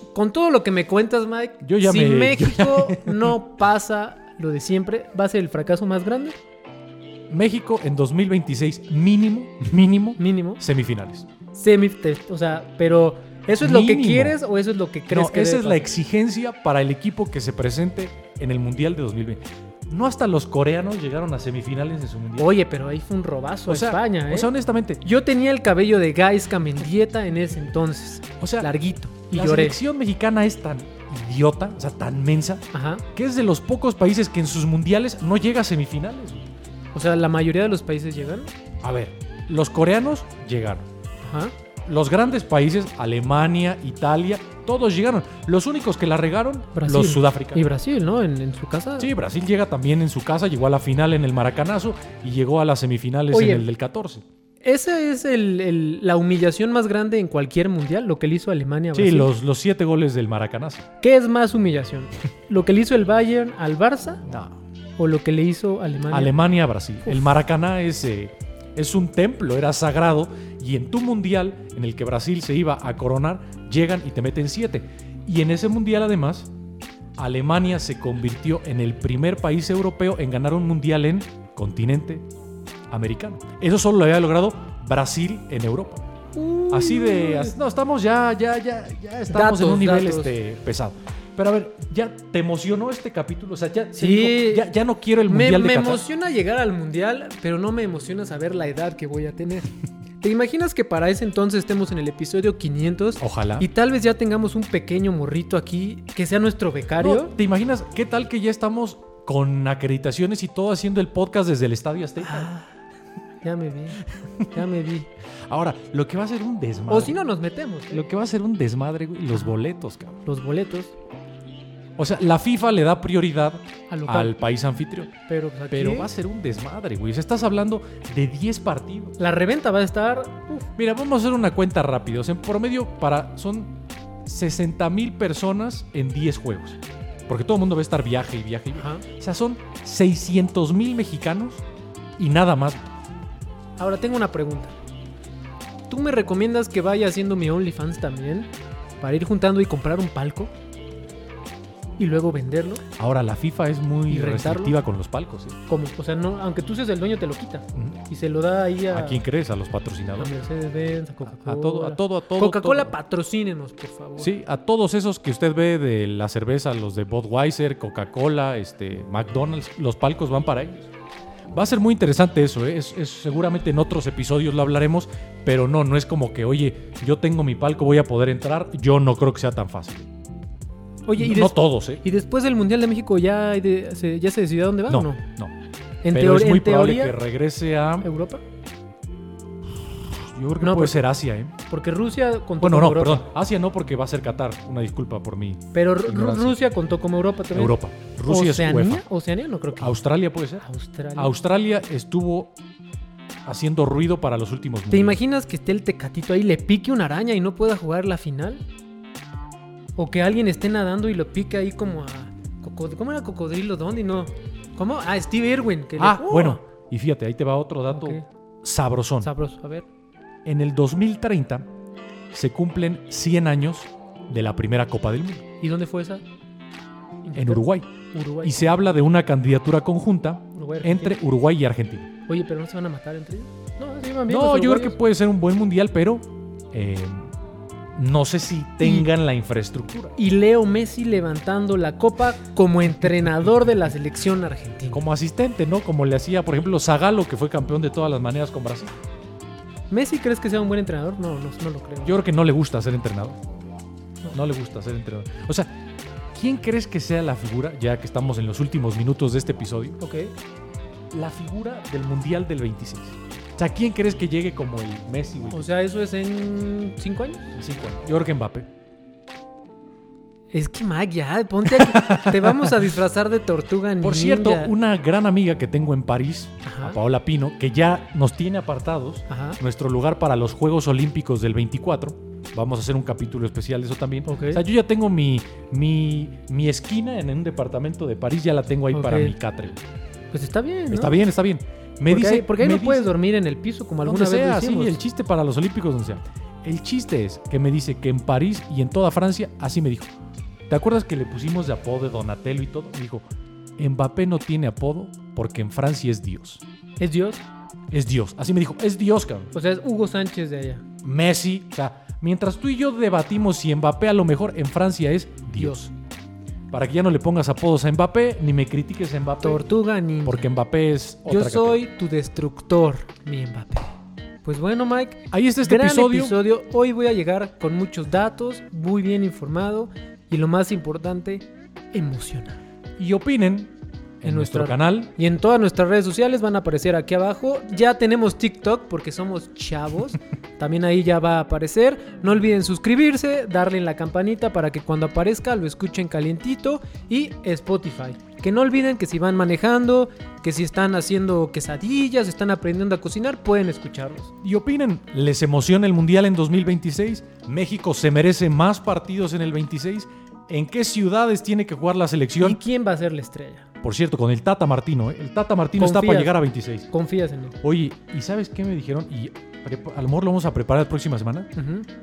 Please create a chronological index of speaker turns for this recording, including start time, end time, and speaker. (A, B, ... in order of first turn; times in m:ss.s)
0:00.1-0:06.4 A
0:01.6-0:03.3 B
0:07.3-0:11.3 B
0:10.2-0:10.6 A
0:11.5-0:15.8 A
0:13.6-0:14.4 B
0:15.1-0:22.5 B
0:22.4-0:24.5 A
0:23.7-0:25.0 B
0:25.0-0:29.8 A
0:28.4-0:28.7 B
0:29.3-0:36.5 B
0:32.7-0:33.0 A
0:36.9-0:38.5 A
0:38.8-0:40.9 B
0:41.2-0:41.5 A
0:41.9-0:47.6 B
0:46.8-0:49.1 A
0:49.0-0:54.2 B
0:53.3-0:53.7 A
0:54.6-0:59.3 A
0:58.9-1:00.9 B
1:01.0-1:04.2 A
1:04.2-1:04.6 B
1:05.0-1:06.3 A
1:06.1-1:16.5 B
1:17.2-1:22.3 B
1:22.9-1:26.1 B
1:26.3-1:27.6 A
1:26.7-1:36.0 B
1:29.3-1:30.4 A
1:34.0-1:34.7 A
1:35.3-1:47.3 A
1:43.2-1:43.7 B
1:47.0-1:52.5 B
1:52.2-1:52.7 A
1:53.4-1:55.1 A
1:55.5-1:57.2 B
1:56.9-1:58.0 A
1:57.9-2:00.2 B
2:00.2-2:00.9 A
2:02.0-2:05.1 B
2:03.9-2:04.4 A
2:05.3-2:06.1 A
2:05.7-2:09.2 B
2:09.2-2:10.7 A
2:10.8-2:21.6 B
2:18.8-2:19.0 A
2:22.2-2:22.8 B
2:23.8-2:24.8 A
2:25.9-2:30.5 A
2:32.0-2:32.8 A
2:33.0-2:35.6 B
2:34.1-2:34.8 A
2:35.7-2:39.2 A
2:38.9-2:40.3 B
2:40.2-2:44.3 A
2:41.2-2:43.0 B
2:44.2-2:50.9 B
2:51.5-3:00.1 B
3:01.1-3:05.2 A
3:01.2-3:02.0 B
3:04.9-3:05.6 B
3:06.0-3:07.2 A
3:06.1-3:08.1 B
3:08.0-3:08.4 A
3:10.2-3:11.6 B
3:10.6-3:11.0 A
3:11.7-3:13.3 A
3:12.6-3:16.6 B
3:15.7-3:20.0 A
3:17.5-3:19.0 B
3:19.8-3:22.5 B
3:20.6-3:21.4 A
3:23.5-3:25.2 B
3:24.9-3:28.6 A
3:30.0-3:36.6 A
3:36.0-3:39.3 B
3:37.9-3:38.2 A
3:39.2-3:39.9 A
3:40.4-3:41.7 B
3:42.3-3:45.4 B
3:45.6-3:46.2 A
3:47.2-3:48.6 A
3:47.4-3:47.9 B
3:48.4-3:52.1 B
3:50.6-3:51.2 A
3:52.3-3:55.0 A
3:54.3-3:57.3 B
3:58.0-4:00.2 B
3:58.8-3:59.1 A
4:00.2-4:05.0 A
4:04.9-4:08.9 B
4:09.9-4:12.1 A
4:12.0-4:13.4 B
4:14.3-4:15.7 B
4:16.3-4:20.0 B
4:20.0-4:20.3 A
4:21.1-4:25.6 B
4:25.5-4:27.5 A
4:27.6-4:28.7 B
4:30.5-4:34.7 A
4:31.7-4:32.8 B
4:34.0-4:49.8 B
4:36.6-4:37.0 A
4:39.3-4:39.6 A
4:44.3-4:44.6 A
4:48.9-4:49.4 A
4:50.3-4:51.2 A
4:50.9-4:53.1 B
4:52.1-4:55.0 A
4:54.0-5:00.1 B
5:00.7-5:03.2 B
5:03.8-5:06.6 B
5:07.0-5:07.5 A
5:07.9-5:09.5 B
5:09.5-5:10.9 A
5:11.0-5:15.9 B
5:16.7-5:19.6 B
5:19.4-5:20.5 A
5:20.2-5:21.8 B
5:21.3-5:23.9 A
5:24.4-5:32.6 A
5:25.3-5:26.4 B
5:33.0-5:35.1 B
5:34.2-5:54.3 A
5:54.4-6:02.6 B
6:02.4-6:03.7 A
6:03.8-6:06.9 B
6:05.8-6:06.3 A
6:06.9-6:07.6 A
6:07.6-6:11.5 B
6:11.6-6:11.9 A